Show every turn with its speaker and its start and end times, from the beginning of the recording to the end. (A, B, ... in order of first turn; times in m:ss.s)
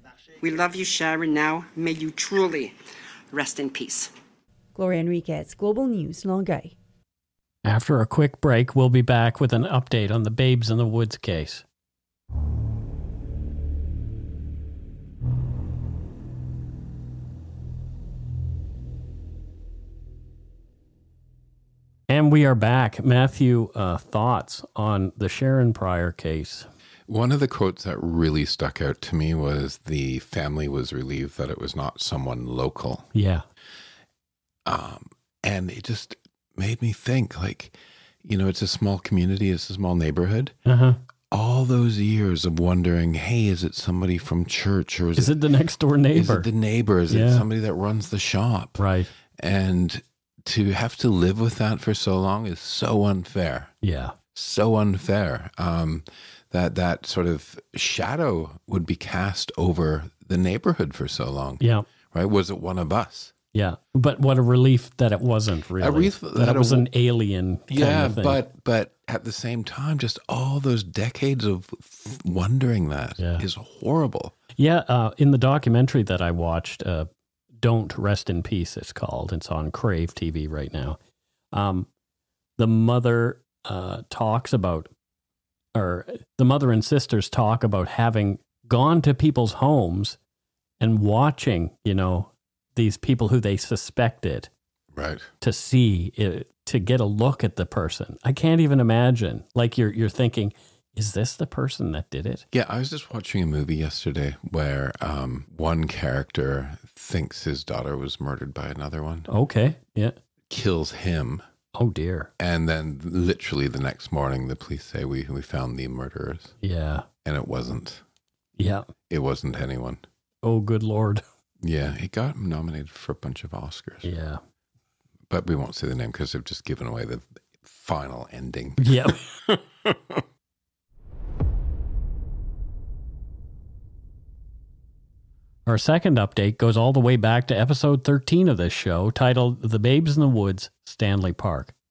0:00.4-0:02.8 A
0:03.3-0:04.1 A
0:04.8-0:06.7 B
0:07.6-0:11.6 C
0:22.1-0:26.7 C
0:27.1-0:33.1 D
0:33.1-0:33.4 C
0:34.7-0:40.6 D
0:40.7-0:41.0 C
0:41.3-0:45.4 D
0:45.2-0:46.5 C
0:46.1-0:48.8 D
0:47.1-0:47.4 C
0:48.8-0:49.1 C
0:49.4-0:53.7 D
0:53.8-0:54.2 C
0:54.3-1:03.3 D
1:01.6-1:01.9 C
1:03.5-1:08.4 C
1:05.8-1:06.9 D
1:07.7-1:14.4 D
1:13.2-1:13.4 C
1:14.6-1:17.1 C
1:17.6-1:21.0 C
1:21.5-1:21.9 C
1:22.6-1:24.9 C
1:25.8-1:30.2 C
1:30.8-1:34.5 C
1:34.9-1:35.3 D
1:35.4-1:42.4 C
1:42.5-1:49.3 D
1:49.3-1:50.2 C
1:50.5-1:51.4 D
1:51.8-1:52.3 C
1:52.4-1:56.6 D
1:56.6-1:57.1 C
1:57.2-1:58.0 D
1:58.6-1:58.9 C
1:59.1-2:00.0 D
2:00.4-2:01.2 C
2:01.6-2:04.1 D
2:04.0-2:04.4 C
2:05.3-2:10.2 D
2:08.8-2:09.2 C
2:15.7-2:21.7 C